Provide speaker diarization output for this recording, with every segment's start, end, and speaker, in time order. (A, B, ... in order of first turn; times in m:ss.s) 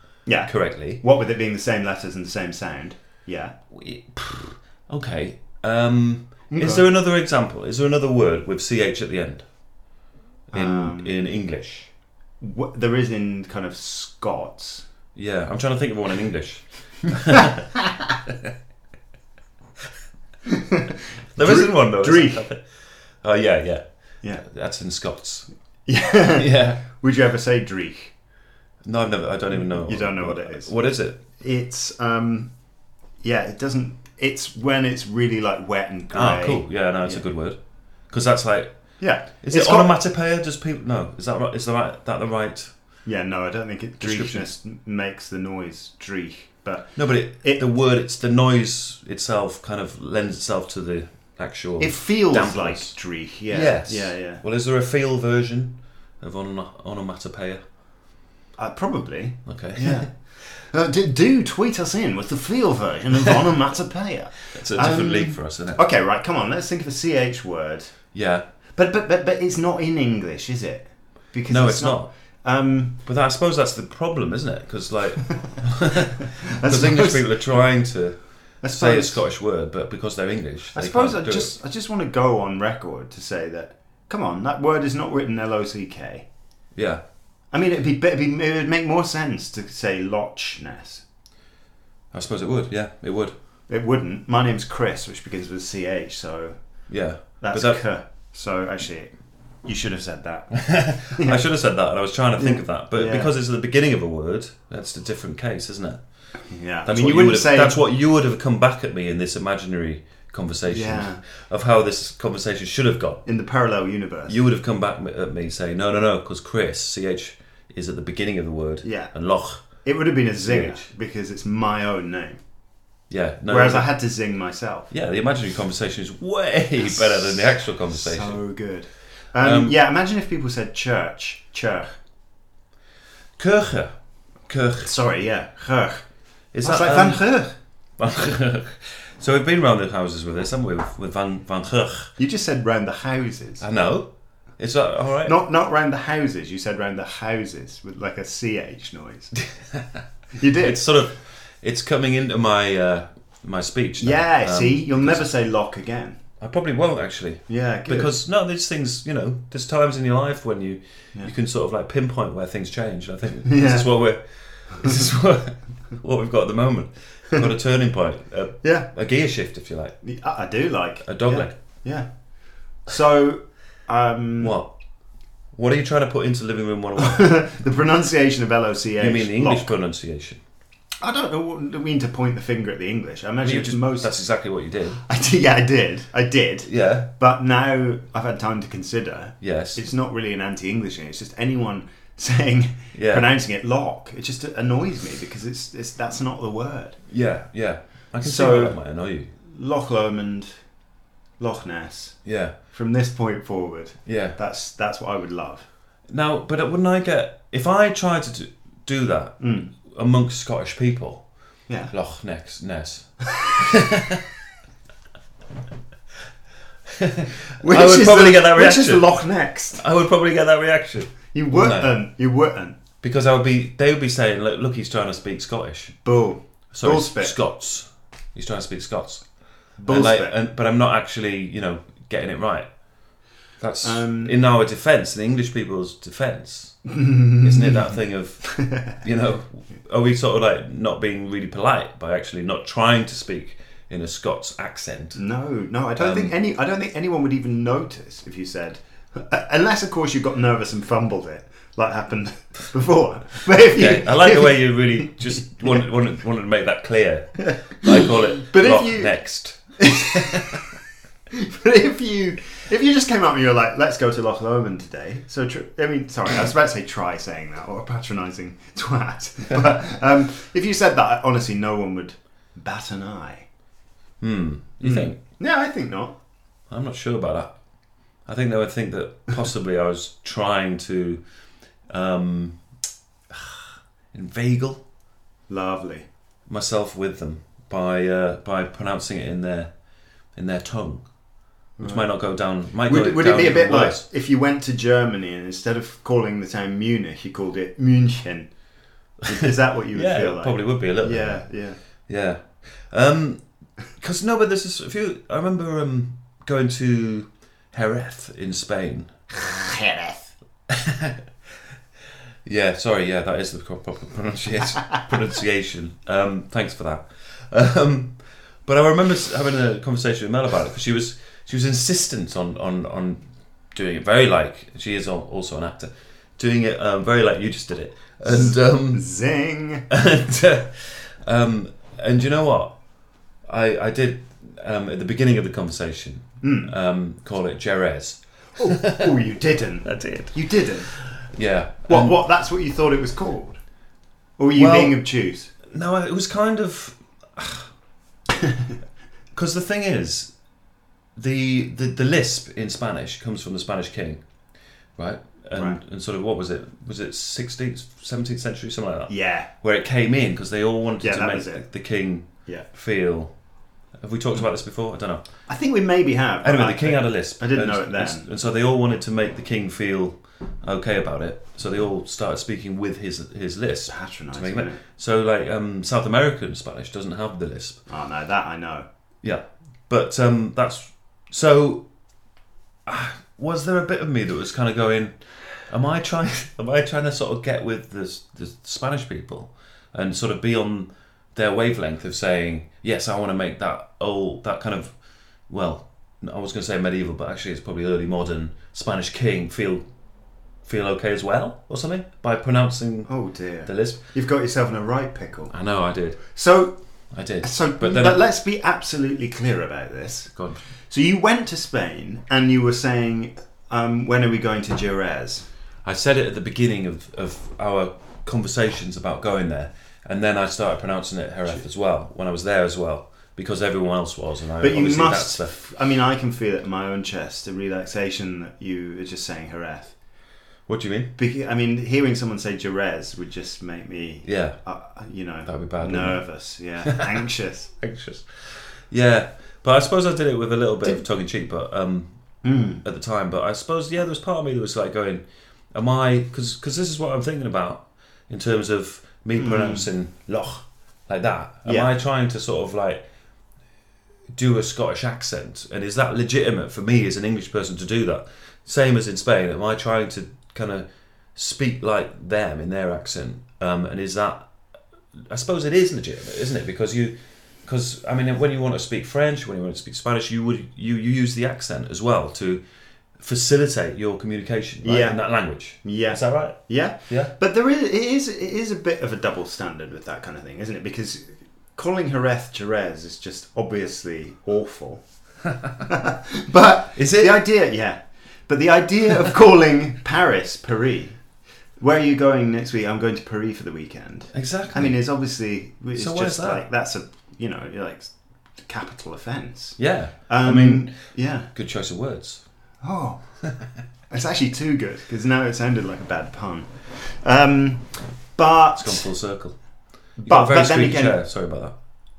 0:00.3-0:03.6 A
0:00.5-0:01.0 B
0:03.7-0:09.4 B
0:06.5-0:06.9 A
0:10.5-0:11.9 B
0:10.5-0:11.2 A
0:12.4-0:14.8 A
0:15.2-0:17.7 B
0:17.3-0:18.1 A
0:18.3-0:18.5 B
0:20.5-0:22.4 A
0:21.3-0:22.7 B
0:23.2-0:23.8 B
0:24.4-0:25.5 B
0:25.9-0:28.1 A
0:26.3-0:26.8 B
0:28.8-0:31.2 B
0:29.5-0:30.7 A
0:31.4-0:32.5 A
0:33.2-0:37.2 A
0:36.1-0:37.6 B
0:38.1-0:38.7 B
0:39.0-0:39.9 A
0:39.4-0:42.7 B
0:43.1-0:47.6 A
0:44.0-0:44.5 B
0:47.0-0:52.9 B
0:51.8-0:54.4 A
0:53.5-0:57.6 B
0:58.6-1:07.9 A
0:59.5-1:00.1 B
1:04.5-1:05.8 B
1:08.1-1:08.4 B
1:08.8-1:13.0 A
1:11.5-1:12.1 B
1:13.0-1:18.2 B
1:16.2-1:17.3 A
1:18.6-1:19.2 A
1:18.7-1:21.5 B
1:20.7-1:26.3 A
1:26.8-1:27.0 B
1:27.5-1:31.0 A
1:32.1-1:33.3 B
1:33.7-1:36.6 A
1:36.9-1:37.8 B
1:37.4-1:39.1 A
1:39.6-1:41.4 A
1:40.6-1:46.0 B
1:42.4-1:43.3 A
1:46.5-1:47.8 A
1:46.9-1:53.2 B
1:50.7-1:51.2 A
1:53.3-1:54.4 A
1:54.3-1:59.7 B
1:58.8-1:59.1 A
1:59.7-2:02.4 A
2:00.5-2:00.9 B
2:03.1-2:03.9 B
2:03.5-2:04.9 A
2:04.9-2:08.4 B
2:06.8-2:12.0 A
2:09.4-2:09.8 B
2:13.4-2:13.9 B
2:14.5-2:14.9 B
2:14.8-2:16.0 A
2:16.5-2:17.2 B
2:16.6-2:17.5 A
2:18.0-2:22.1 B
2:22.2-2:23.6 A
2:23.6-2:25.4 B
2:25.2-2:29.3 A
2:29.7-2:30.0 B
2:30.3-2:30.8 A
2:30.6-2:35.3 B
2:34.0-2:36.2 A
2:36.4-2:50.0 B
2:37.5-2:38.1 A
2:43.4-2:43.9 A
2:48.6-2:48.9 A
2:50.0-2:52.1 A
2:51.0-2:51.6 B
2:52.8-2:54.6 A
2:54.4-2:54.7 B
2:55.5-2:57.4 B
2:57.0-2:59.7 A
2:59.0-3:00.4 B
3:01.0-3:04.1 A
3:03.4-3:05.0 B
3:05.0-3:17.0 A
3:06.7-3:07.1 B
3:09.4-3:09.8 B
3:12.9-3:13.3 B
3:17.1-3:19.3 B
3:18.2-3:18.8 A
3:19.4-3:20.5 A
3:21.4-3:22.2 A
3:22.2-3:22.5 B
3:22.7-3:25.7 A
3:24.1-3:24.4 B
3:26.1-3:31.2 B
3:29.4-3:29.7 A
3:31.9-3:34.2 B
3:36.9-3:39.1 B
3:37.6-3:39.8 A
3:39.8-3:41.9 B
3:41.3-3:42.8 A
3:43.0-3:46.0 B
3:46.0-3:47.4 A
3:46.7-3:49.2 B
3:49.8-3:50.3 A
3:49.9-3:52.7 B
3:53.6-3:56.8 B
3:53.8-3:54.3 A
3:56.8-3:59.0 A
3:57.4-4:05.2 B
4:05.2-4:15.8 A
4:06.0-4:06.3 B
4:13.6-4:20.6 B
4:17.4-4:19.2 A
4:19.8-4:20.7 A
4:21.3-4:33.5 A
4:34.2-4:35.2 B
4:34.8-4:36.2 A
4:36.7-4:37.5 B
4:38.2-4:41.2 B
4:41.9-4:42.6 B
4:43.3-4:44.8 B
4:45.5-4:46.1 A
4:46.5-4:49.7 B
4:50.4-4:51.0 B
4:51.8-4:52.1 A
4:51.8-4:54.0 B
4:52.8-4:58.5 A
4:59.2-5:01.8 A
4:59.2-5:01.4 B
5:02.1-5:03.4 B
5:04.0-5:09.1 B
5:09.3-5:10.3 A
5:10.7-5:11.2 B
5:12.4-5:23.2 B
5:23.7-5:29.0 B
5:28.2-5:29.9 A
5:29.9-5:32.8 B
5:33.5-5:39.1 B
5:36.4-5:36.7 A
5:38.6-5:40.9 A
5:39.8-5:42.1 B
5:41.9-5:43.6 A
5:44.4-5:45.5 A
5:44.6-5:45.0 B
5:45.6-5:47.7 B
5:48.4-5:48.7 A
5:49.3-5:50.3 B
5:51.2-5:54.2 B
5:55.0-6:03.3 B
5:59.1-5:59.5 A
6:01.0-6:01.6 A
6:04.0-6:05.2 B
6:05.5-6:08.3 A
6:06.4-6:17.8 B
6:13.9-6:14.8 A
6:17.9-6:18.9 A
6:19.2-6:21.9 B
6:22.9-6:34.9 B
6:35.5-6:39.8 B
6:40.6-6:43.1 B
6:43.1-6:45.5 A
6:43.7-6:44.0 B
6:45.5-6:46.2 B
6:46.2-6:46.8 A
6:47.1-6:48.2 B
6:47.4-6:50.3 A
6:50.3-6:50.6 B
6:50.9-6:55.5 A
6:55.8-7:05.5 B
7:04.6-7:10.0 A
7:10.7-7:11.1 B
7:11.2-7:17.7 A
7:14.2-7:14.6 B
7:15.5-7:16.2 B
7:16.8-7:17.2 B
7:17.8-7:22.1 B
7:22.4-7:22.8 A
7:22.8-7:33.0 B
7:29.4-7:29.9 A
7:31.7-7:31.9 A
7:34.3-7:44.5 B
7:45.2-7:52.6 B
7:53.2-7:56.6 B
7:54.8-7:55.2 A
7:55.8-8:05.0 A
8:05.8-8:11.2 A
8:07.0-8:07.4 B
8:11.8-8:21.5 A
8:14.3-8:15.0 B
8:16.0-8:16.6 B
8:19.8-8:21.0 B
8:21.5-8:22.4 B
8:22.8-8:23.2 A
8:24.1-8:29.1 A
8:28.8-8:29.6 B
8:30.2-8:31.2 A
8:30.2-8:31.8 B